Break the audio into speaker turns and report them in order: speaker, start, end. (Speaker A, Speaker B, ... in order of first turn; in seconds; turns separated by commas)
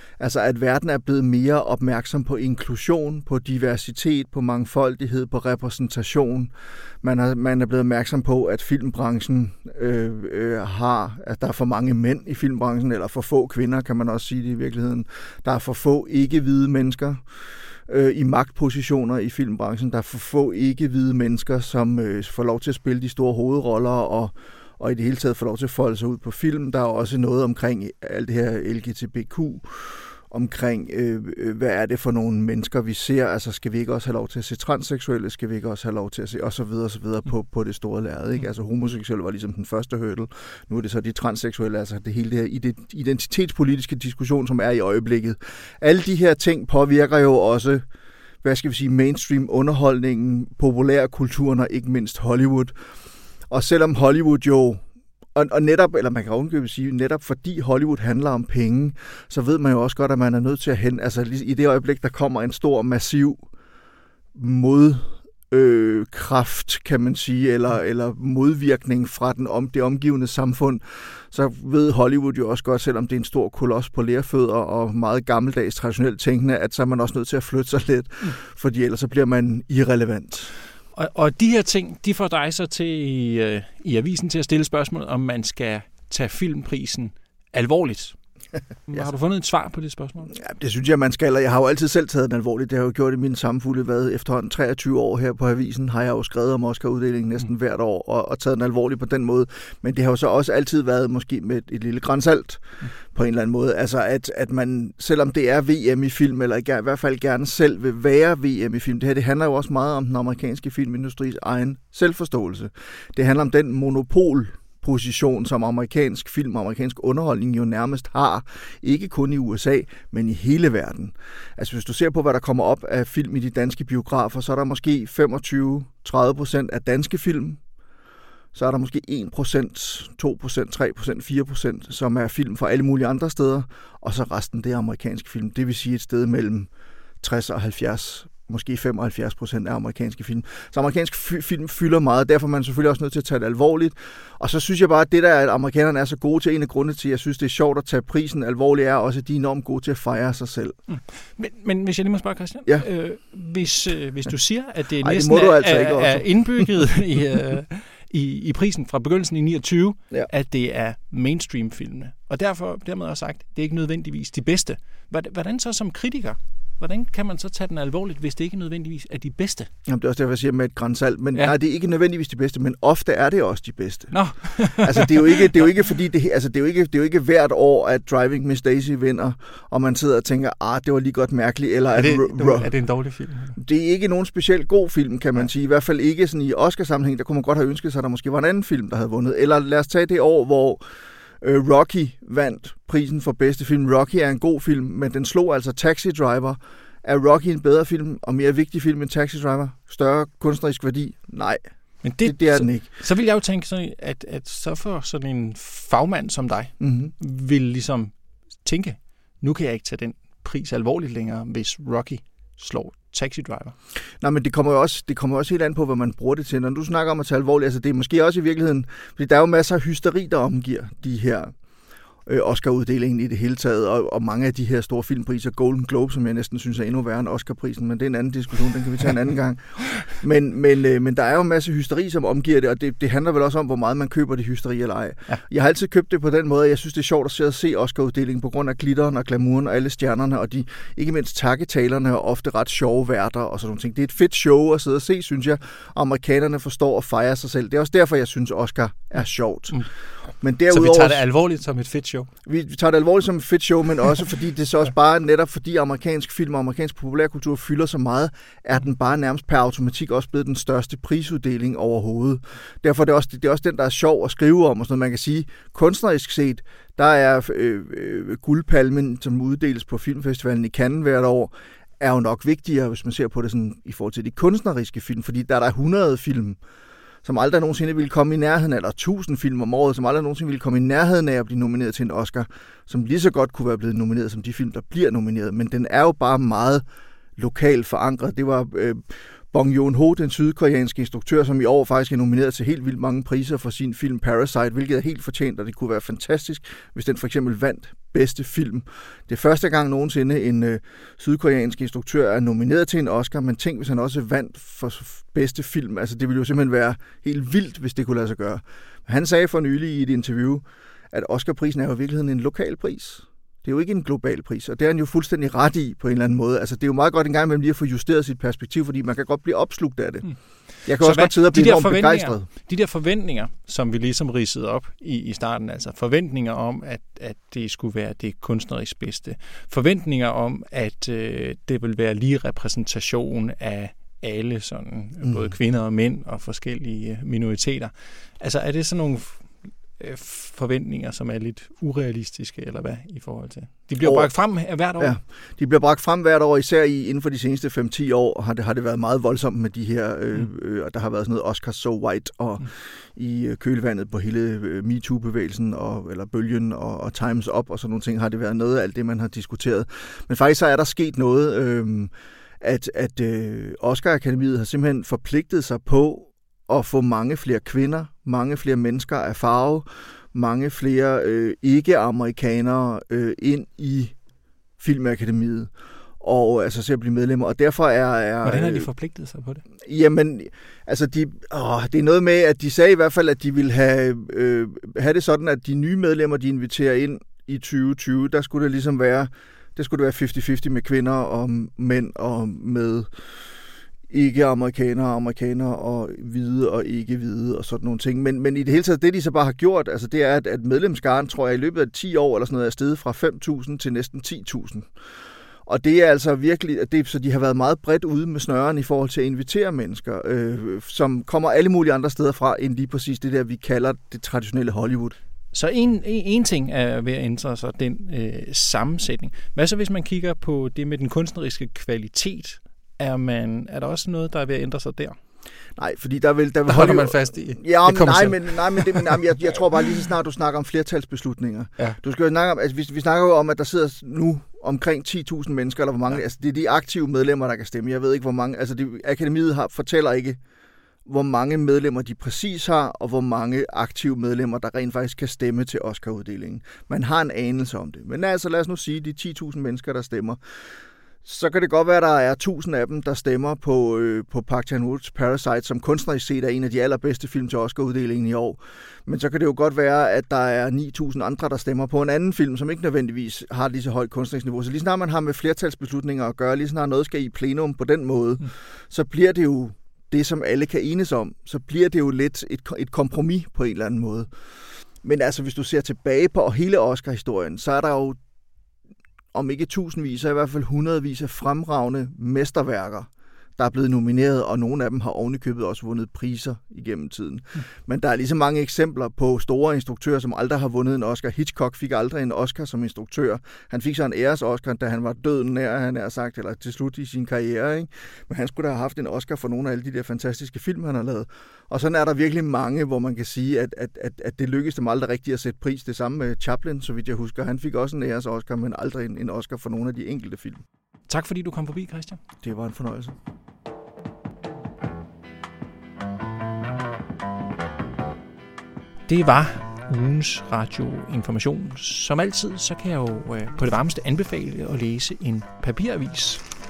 Speaker A: 0.2-17.2, Speaker A: 17.9-47.8, Speaker A: 48.4-52.7, Speaker A: 53.5-54.8, Speaker A: 55.3-63.4, Speaker A: 64.3-80.5, Speaker B: 80.9-88.2, Speaker B: 88.9-90.3, Speaker A: 90.4-127.6, Speaker A: 128.5-136.7, Speaker A: 137.2-150.8, Speaker B: 150.9-169.7, Speaker A: 155.0-156.7, Speaker A: 169.9-182.7, Speaker B: 174.1-175.4, Speaker B: 181.9-183.6, Speaker A: 183.6-190.8, Speaker A: 191.4-201.6, Speaker B: 202.0-213.7, Speaker A: 202.2-202.9, Speaker A: 206.8-207.1, Speaker A: 214.2-221.5, Speaker A: 222.2-249.8, Speaker A: 250.4-251.2, Speaker B: 250.7-252.3, Speaker A: 252.4-276.6, Speaker A: 277.2-286.8, Speaker A: 287.4-322.5, Speaker B: 321.0-345.1, Speaker A: 335.2-335.5, Speaker A: 344.0-344.4, Speaker A: 345.0-374.1, Speaker A: 374.8-378.9, Speaker B: 378.4-379.6, Speaker A: 379.8-393.1, Speaker A: 394.1-404.9, Speaker A: 405.6-415.1, Speaker B: 415.5-425.2, Speaker A: 425.8-440.4, Speaker B: 426.7-429.2, Speaker A: 441.0-450.4, Speaker A: 451.2-474.3, Speaker A: 475.0-478.2, Speaker A: 479.3-510.6, Speaker B: 511.1-512.2, Speaker A: 512.4-513.1, Speaker B: 519.1-526.5